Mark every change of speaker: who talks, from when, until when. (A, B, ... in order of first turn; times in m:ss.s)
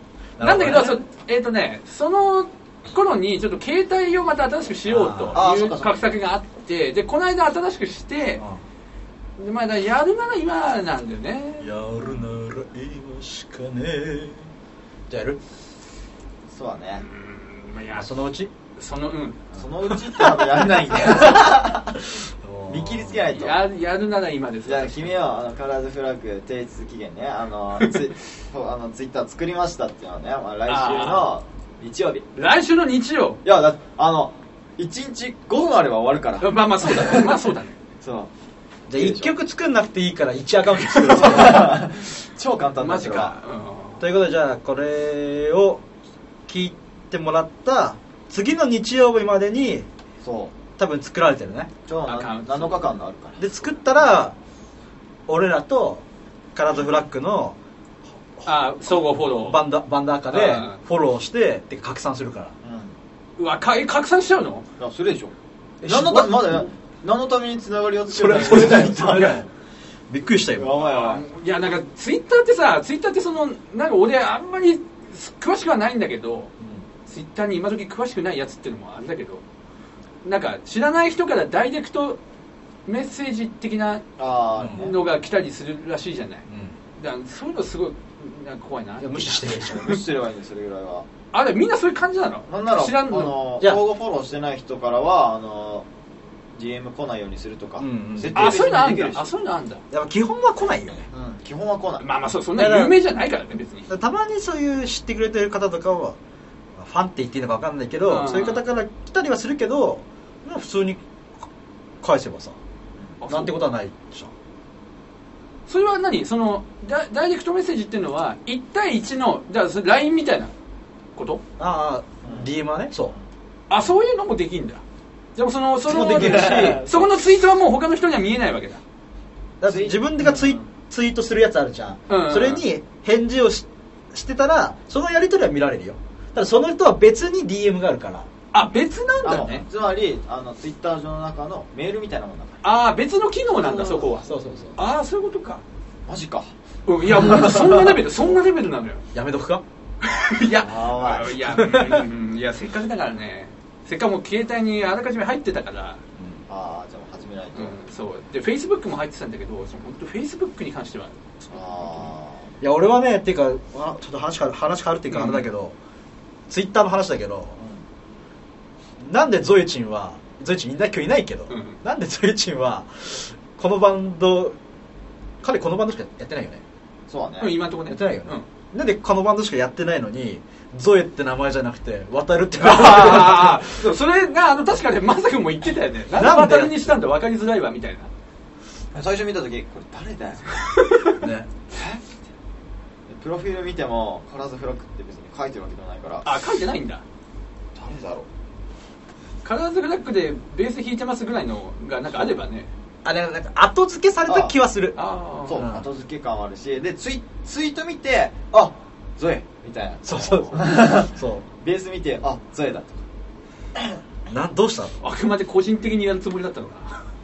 0:00.4-0:01.0 A
0:00.4-0:08.4 B
0:04.8-0:05.4 A
0:05.3-0:06.1 C
0:08.4-0:08.6 A
0:09.4-0:12.2 B
0:11.6-0:14.5 A
0:15.1-0:15.4 A
0:16.5-0:17.0 C
0:17.0-0:18.1 B
0:18.0-0:18.5 A
0:18.7-0:20.6 B
0:19.5-0:22.1 C
0:22.0-0:23.3 A
0:22.7-0:23.6 C
0:23.3-0:25.1 B
0:24.6-0:32.2 C
0:30.7-0:31.3 B
0:32.4-0:33.4 B
0:33.4-0:37.4 C
0:36.4-0:37.8 B
0:38.0-0:38.3 C
0:38.9-0:41.9 A
0:38.9-0:39.3 C
0:41.0-0:43.4 C
0:42.8-0:44.0 B
0:44.0-0:45.8 A
0:46.5-0:49.9 A
0:50.2-0:50.5 C
0:50.8-0:51.7 A
0:51.9-0:53.5 C
0:52.0-0:52.9 B
0:53.4-0:54.4 A
0:55.3-0:57.6 A
0:58.4-0:59.6 B
0:59.3-1:02.5 A
1:00.3-1:00.8 B
1:02.6-1:02.9 C
1:03.4-1:04.6 B
1:04.8-1:09.4 C
1:05.8-1:06.6 A
1:08.1-1:09.5 A
1:10.1-1:10.8 A
1:10.5-1:11.2 C
1:10.8-1:16.5 B
1:16.6-1:16.8 A
1:17.0-1:19.4 B
1:20.2-1:22.2 B
1:22.8-1:24.0 B
1:24.2-1:25.0 C
1:24.6-1:24.9 A
1:24.6-1:29.9 B
1:26.5-1:26.8 A
1:29.0-1:30.0 A
1:29.7-1:31.1 C
1:31.3-1:33.4 B
1:32.5-1:35.9 C
1:36.5-1:39.3 C
1:37.8-1:38.6 A
1:38.3-1:39.8 B
1:39.9-1:41.1 A
1:41.1-1:42.1 C
1:42.0-1:43.9 B
1:42.5-1:43.0 A
1:43.9-1:46.2 A
1:46.8-1:51.0 A
1:48.0-1:48.6 B
1:52.0-1:52.6 A
1:53.2-1:53.7 B
1:53.3-1:54.3 A
1:55.7-2:00.5 B
2:01.1-2:01.4 B
2:01.6-2:03.1 A
2:02.2-2:02.5 C
2:03.7-2:04.8 B
2:05.4-2:08.8 B
2:05.9-2:07.1 A
2:06.1-2:06.9 C
2:09.6-2:18.3 A
2:09.6-2:10.6 C
2:12.1-2:12.6 B
2:18.5-2:19.6 B
2:19.2-2:22.6 C
2:22.6-2:25.6 B
2:23.6-2:24.2 C
2:24.2-2:24.8 A
2:26.0-2:26.5 C
2:26.8-2:29.0 B
2:27.3-2:28.0 C
2:29.1-2:29.6 A
2:30.0-2:36.0 B
2:30.5-2:31.4 C
2:31.5-2:32.1 A
2:36.5-2:37.8 C
2:37.5-2:42.1 B
2:41.5-2:42.5 C
2:42.6-2:45.8 A
2:45.1-2:45.5 B
2:46.5-2:47.6 A
2:47.6-2:47.8 C
2:49.0-2:54.6 A
2:51.5-2:51.8 B
2:55.4-2:56.6 A
2:57.1-2:57.5 C
2:57.4-2:58.4 B
2:57.9-3:03.8 A
3:02.6-3:08.1 B
3:06.1-3:07.0 A
3:08.9-3:10.6 C
3:10.6-3:11.2 B
3:11.2-3:11.5 A
3:11.7-3:12.0 C
3:13.1-3:16.3 C
3:16.2-3:17.0 B
3:17.8-3:18.3 C
3:19.4-3:22.7 B
3:23.0-3:25.0 A
3:24.3-3:24.6 C
3:25.0-3:25.6 B
3:25.4-3:33.0 C
3:25.6-3:25.9 A
3:30.0-3:31.5 A
3:34.3-3:35.0 A
3:35.0-3:37.1 B